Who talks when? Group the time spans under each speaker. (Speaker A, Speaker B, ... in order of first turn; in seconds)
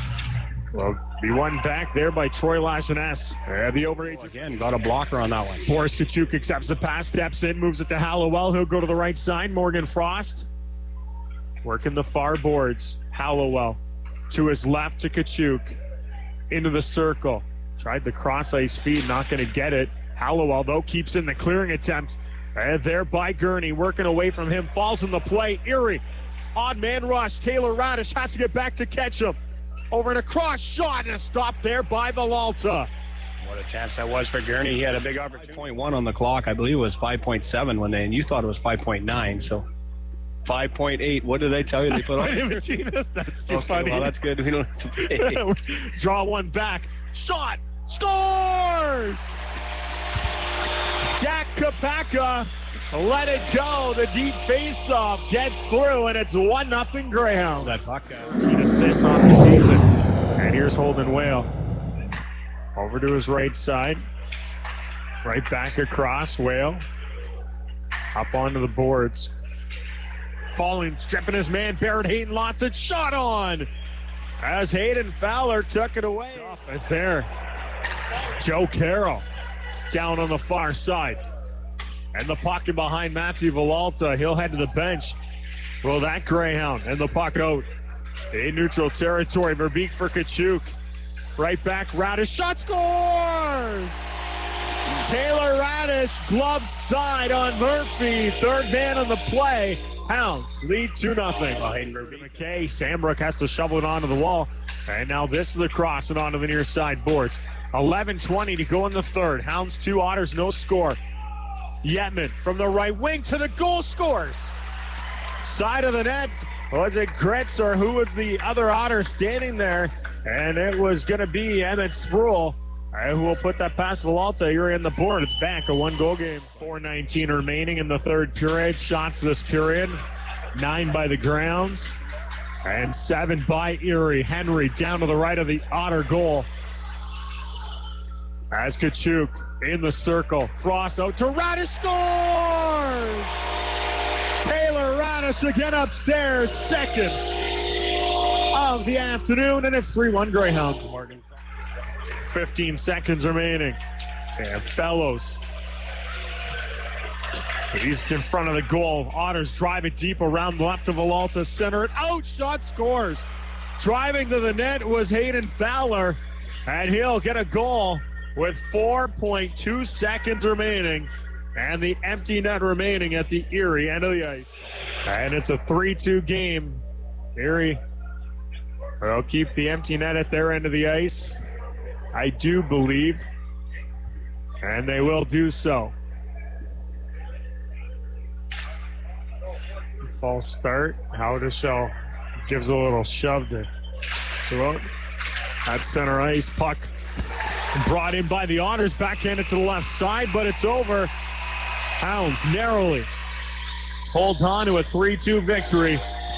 Speaker A: 0.7-4.5, 5.6-10.5, 11.6-15.8, 16.5-26.0, 26.5-29.4, 29.9-32.9, 41.9-44.1, 45.1-49.4, 51.1-61.5, 62.8-64.0, 65.2-66.8, 68.1-69.3, 70.5-73.7, 74.4-77.3, 78.1-79.2, 79.9-81.2, 82.1-85.2, 85.8-87.7, 88.3-90.7, 91.4-94.1, 95.0-111.0, 111.8-114.5, 115.4-130.0, 130.5-132.0, 132.6-136.5, 138.5-143.5, 144.4-147.2, 148.5-150.9, 152.3-153.8, 154.4-155.4, 157.7-176.8, 177.3-177.8, 179.0-181.4, 182.1-183.3, 184.6-185.9, 190.0-191.9, 192.4-193.7, 194.5-194.9, 195.7-196.9, 197.7-201.1, 202.0-203.1, 204.1-206.0
Speaker B: 4.0-5.7, 33.4-39.6, 40.4-42.6, 43.5-45.4, 57.6-58.3, 101.5-102.3, 150.8-151.2